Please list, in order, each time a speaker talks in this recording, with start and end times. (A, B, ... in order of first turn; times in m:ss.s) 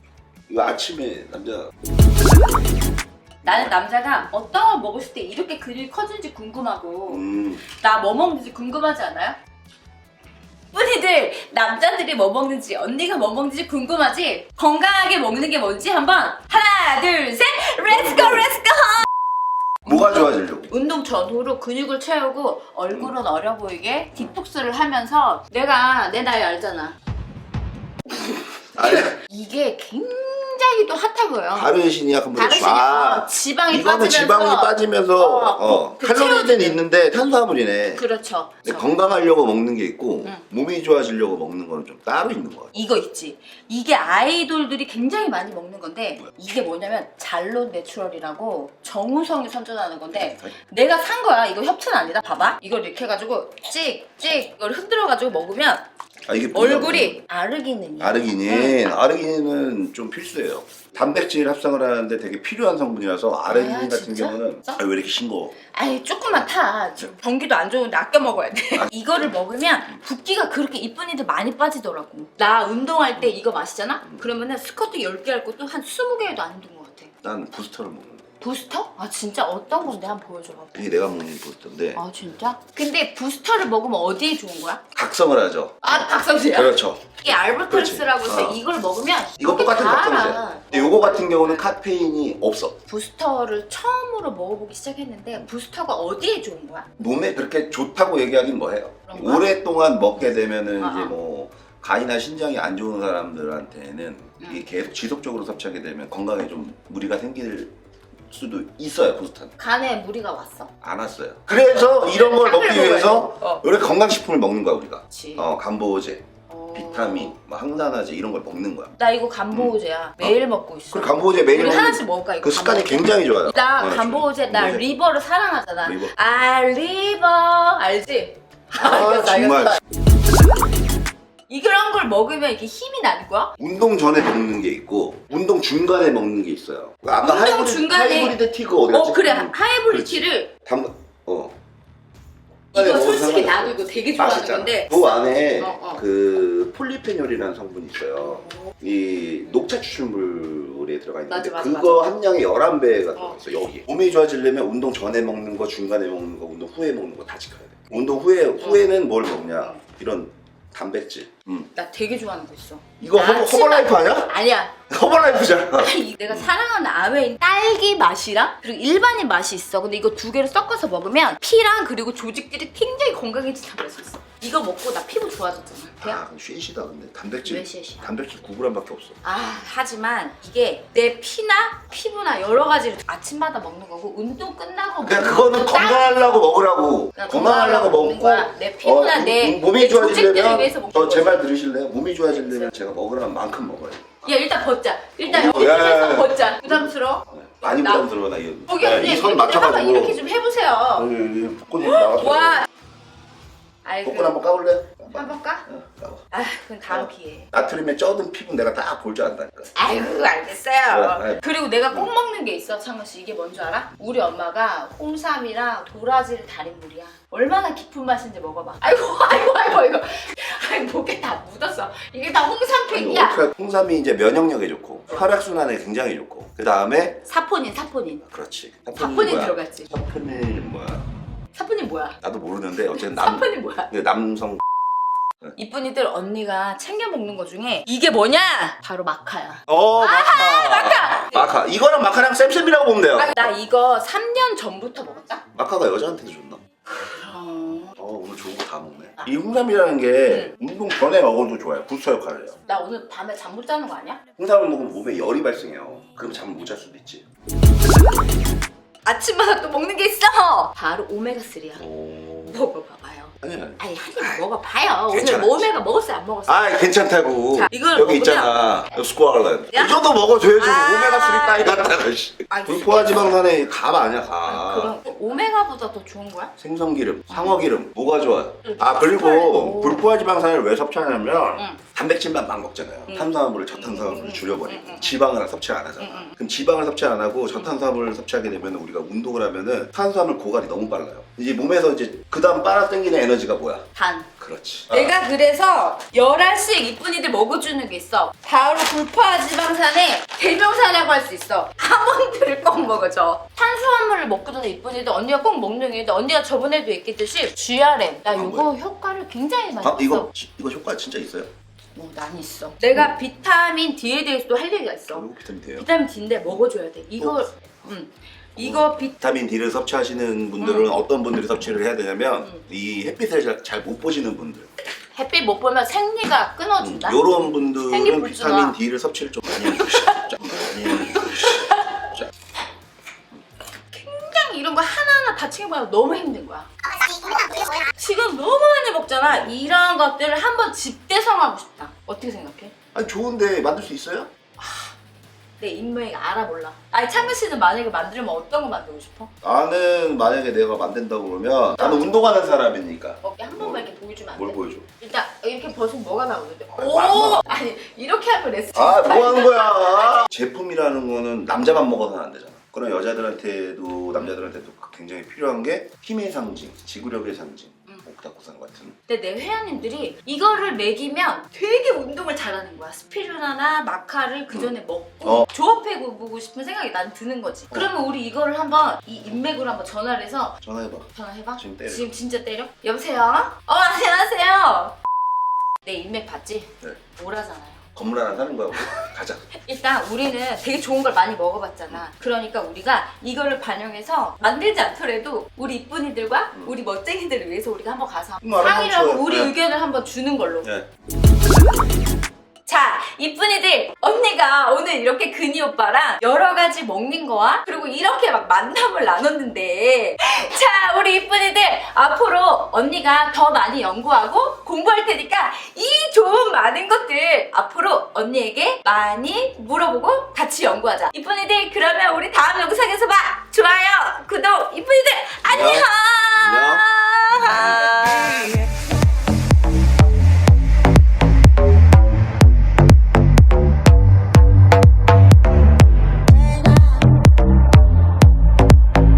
0:00.5-0:01.7 A
0:03.4-0:09.4 B
0:03.4-0:03.7 A
0:07.1-0:07.6 A
0:10.7-0:19.1 B
0:17.9-0:18.5 A
0:19.8-0:20.7 A
0:19.8-0:26.9 B
0:28.3-0:31.7 B
0:28.8-0:29.2 A
0:31.5-0:38.0 A
0:32.3-0:36.8 B
0:38.0-0:38.9 B
0:38.6-0:42.7 A
0:42.7-0:55.8 B
0:50.1-0:50.6 A
0:56.2-0:57.2 A
0:56.5-0:58.9 B
0:58.0-1:05.6 A
1:03.5-1:04.8 B
1:05.7-1:17.1 B
1:08.8-1:09.2 A
1:17.2-1:18.3 A
1:18.4-1:20.9 B
1:20.7-1:22.0 A
1:21.9-1:24.8 B
1:24.9-1:28.6 A
1:25.8-1:31.7 B
1:29.4-1:32.8 A
1:32.9-1:36.9 B
1:37.0-1:47.7 A
1:39.1-1:39.5 B
1:40.8-1:41.1 B
1:48.3-1:49.5 A
1:49.6-1:50.7 B
1:50.8-1:58.9 A
1:52.0-1:53.6 B
1:55.1-1:55.5 B
1:56.5-1:57.3 B
1:59.0-2:09.8 B
1:59.5-2:00.4 A
2:00.9-2:04.8 A
2:05.8-2:06.2 A
2:08.7-2:09.8 A
2:11.5-2:13.5 B
2:13.6-2:21.6 A
2:17.2-2:18.4 B
2:18.9-2:20.5 B
2:22.7-2:26.0 B
2:22.7-2:41.7 A
2:31.3-2:32.1 B
2:38.6-2:38.9 B
2:41.7-2:56.2 B
2:43.0-2:44.4 A
2:44.9-2:46.5 A
2:56.0-2:59.2 A
2:57.4-2:58.1 B
2:59.2-3:06.2 B
3:05.0-3:14.4 A
3:07.2-3:11.4 B
3:12.3-3:12.7 B
3:14.2-3:18.1 B
3:15.2-3:20.2 A
3:18.7-3:21.1 B
3:21.0-3:22.6 A
3:21.8-3:22.6 B
3:23.8-3:24.4 B
3:24.0-3:26.2 A
3:25.1-3:25.6 B
3:26.3-3:27.5 B
3:26.9-3:29.8 A
3:29.7-3:43.4 B
3:30.9-3:32.1 A
3:42.9-3:47.2 A
3:47.2-3:48.2 B
3:48.2-3:51.0 A
3:49.0-3:49.9 B
3:51.5-3:52.2 B
3:52.2-3:54.6 A
3:52.9-3:53.9 B
3:55.6-4:01.5 B
3:59.7-4:03.5 A
4:03.1-4:05.4 B
4:05.5-4:06.6 A
4:06.9-4:07.9 B
4:08.0-4:12.6 A
4:10.2-4:10.5 B
4:12.6-4:14.2 B
4:14.4-4:17.2 A
4:19.0-4:21.8 B
4:21.8-4:22.7 A
4:22.5-4:26.8 B
4:23.4-4:24.4 A
4:25.1-4:25.7 A
4:26.5-4:35.0 A
4:27.5-4:29.0 B
4:29.7-4:30.0 B
4:30.6-4:32.0 B
4:32.5-4:33.4 B
4:34.4-4:36.5 B
4:36.6-4:53.8 A
4:37.3-4:37.6 B
4:38.6-4:40.1 B
4:43.1-4:45.2 B
4:46.0-4:46.3 B
4:53.9-4:54.3 B
4:54.4-4:55.1 A
4:54.9-5:10.3 B
5:08.3-5:08.7 A
5:09.8-5:11.5 A
5:11.9-5:19.1 B
5:15.1-5:15.9 A
5:17.2-5:17.5 A
5:18.6-5:24.7 A
5:20.6-5:21.0 B
5:25.1-5:27.2 B
5:26.8-5:31.7 A
5:27.9-5:28.8 B
5:29.6-5:32.1 B
5:33.9-5:42.7 B
5:39.3-5:39.6 A
5:42.9-5:44.3 A
5:44.6-5:44.9 B
5:45.6-5:49.3 B
5:49.4-5:54.8 A
5:51.8-5:52.4 B
5:53.2-6:00.3 B
5:56.8-5:57.4 A
5:58.7-6:09.0 A
6:09.1-6:20.5 B
6:15.2-6:15.5 A
6:20.6-6:22.1 A
6:21.1-6:25.0 B
6:25.8-6:27.8 B
6:27.9-6:29.5 A
6:28.7-6:40.7 B
6:38.4-6:39.5 A
6:42.6-7:08.6 B
7:05.4-7:05.9 A
7:06.4-7:07.9 A